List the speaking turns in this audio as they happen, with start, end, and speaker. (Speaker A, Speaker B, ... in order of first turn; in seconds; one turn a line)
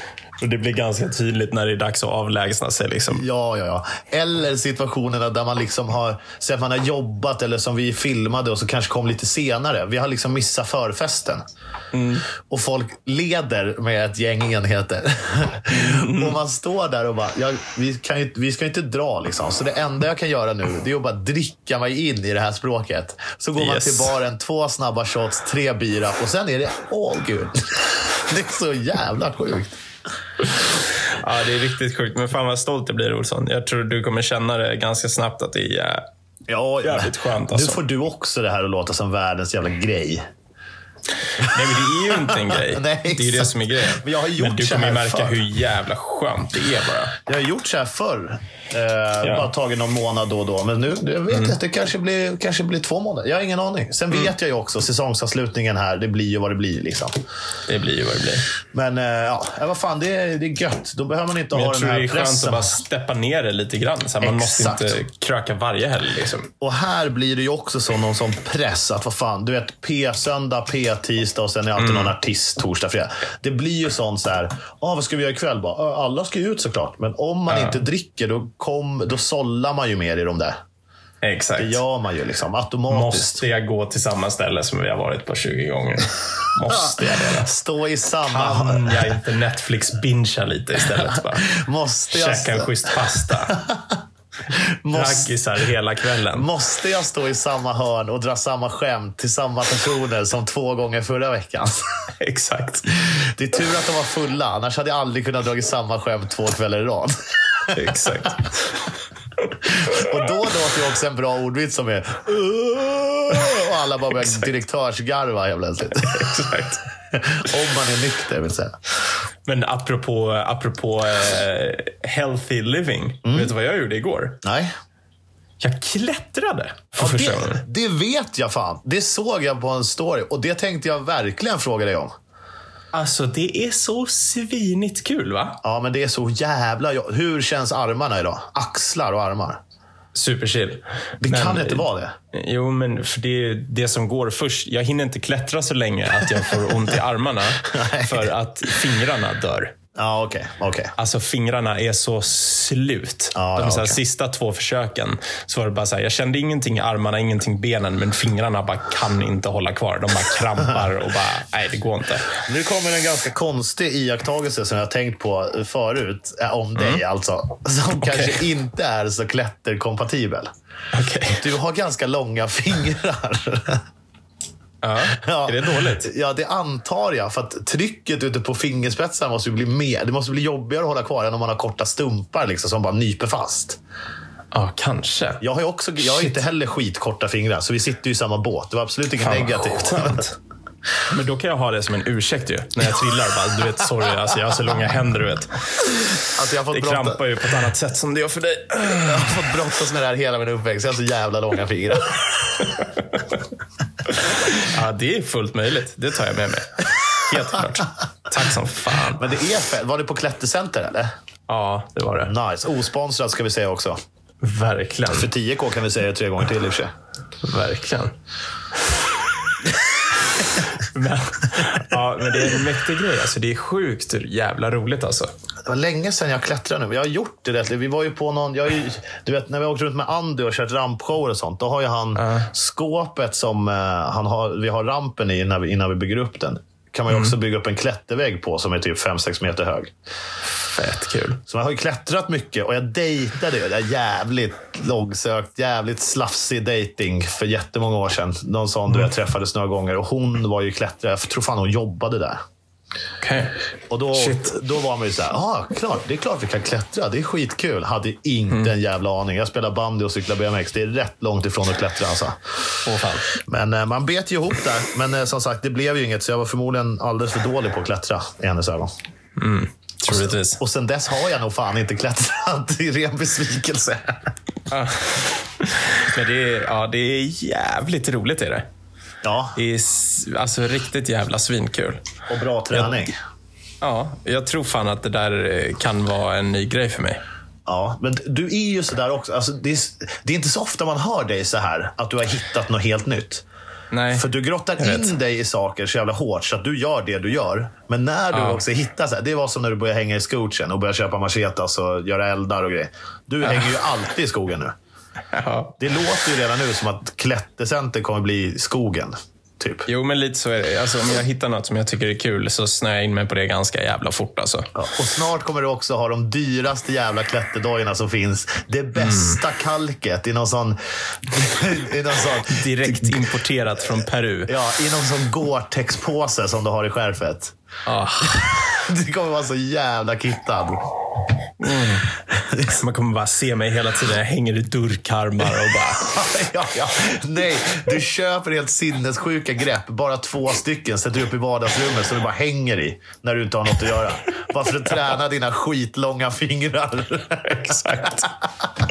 Speaker A: 0.4-3.2
Speaker B: 3.1-11.4
Speaker A: 11.9-12.3
Speaker B: 12.4-29.7
Speaker A: 15.7-16.4
Speaker A: 23.6-24.1
Speaker A: 31.1-36.0
Speaker B: 36.5-40.2
Speaker A: 36.8-37.8
Speaker A: 41.4-47.2
Speaker B: 41.4-45.4
Speaker B: 47.2-57.2
Speaker A: 49.2-49.5
Speaker A: 57.7-58.5
Speaker B: 58.7-62.7
Speaker A: 61.5-66.5
Speaker B: 64.2-65.0
Speaker B: 66.6-80.5
Speaker A: 71.8-72.1
Speaker A: 77.5-77.8
Speaker A: 81.2-81.8
Speaker B: 81.6-83.4
Speaker A: 82.9-87.5
Speaker B: 86.7-89.1
Speaker A: 88.3-91.5
Speaker B: 90.9-94.0
Speaker A: 92.1-93.6
Speaker B: 94.5-95.3
Speaker A: 94.9-96.5
Speaker B: 96.3-101.8
Speaker A: 102.2-102.9
Speaker B: 102.9-108.3
Speaker A: 107.7-108.8
Speaker B: 109.6-116.3
Speaker A: 116.0-116.8
Speaker B: 117.1-118.8
Speaker A: 119.5-124.4
Speaker B: 123.2-123.5
Speaker B: 124.4-124.7
Speaker A: 125.6-127.6
Speaker B: 127.0-132.1
Speaker A: 132.9-135.6
Speaker B: 135.6-139.6
Speaker A: 140.1-149.7
Speaker B: 141.2-142.1
Speaker B: 147.6-148.3
Speaker B: 149.9-150.9
Speaker A: 151.0-162.4
Speaker B: 153.3-154.0
Speaker B: 162.4-170.5
Speaker A: 166.8-167.0
Speaker A: 168.0-168.4
Speaker A: 170.9-171.4
Speaker B: 171.4-173.8
Speaker A: 174.8-176.1
Speaker B: 175.1-183.8
Speaker A: 184.5-185.4
Speaker B: 185.4-190.3
Speaker A: 186.0-186.4
Speaker A: 189.2-190.3
Speaker A: 191.1-195.8
Speaker B: 196.3-197.2
Speaker A: 196.7-199.4
Speaker B: 199.0-202.8
Speaker A: 202.8-203.3
Speaker A: 204.1-209.2
Speaker B: 209.1-211.1
Speaker A: 211.5-212.3
Speaker B: 212.3-214.0
Speaker A: 214.4-215.3
Speaker B: 215.1-216.9
Speaker A: 217.4-218.1
Speaker A: 220.4-225.3
Speaker B: 225.7-239.9
Speaker A: 232.2-232.5
Speaker A: 240.6-241.4
Speaker B: 241.5-252.4
Speaker A: 253.2-253.6
Speaker B: 253.9-262.4
Speaker A: 254.1-254.5
Speaker A: 262.8-263.3
Speaker B: 263.3-268.9
Speaker A: 269.4-270.6
Speaker B: 270.1-274.2
Speaker A: 274.7-278.7
Speaker B: 279.2-279.6
Speaker A: 279.6-282.0
Speaker B: 282.3-283.2
Speaker A: 283.8-287.2
Speaker B: 287.7-293.4
Speaker A: 293.9-294.3
Speaker B: 294.1-304.8
Speaker A: 294.8-295.1
Speaker A: 298.3-298.6
Speaker A: 305.3-305.8
Speaker B: 305.8-309.9
Speaker A: 309.9-314.7
Speaker B: 314.8-323.2
Speaker A: 319.0-319.4
Speaker A: 322.5-324.5
Speaker B: 324.5-327.5
Speaker A: 327.9-328.6
Speaker B: 328.4-330.8
Speaker A: 331.6-332.1
Speaker B: 332.3-332.8
Speaker A: 332.7-336.2
Speaker B: 335.9-348.3
Speaker A: 347.4-348.3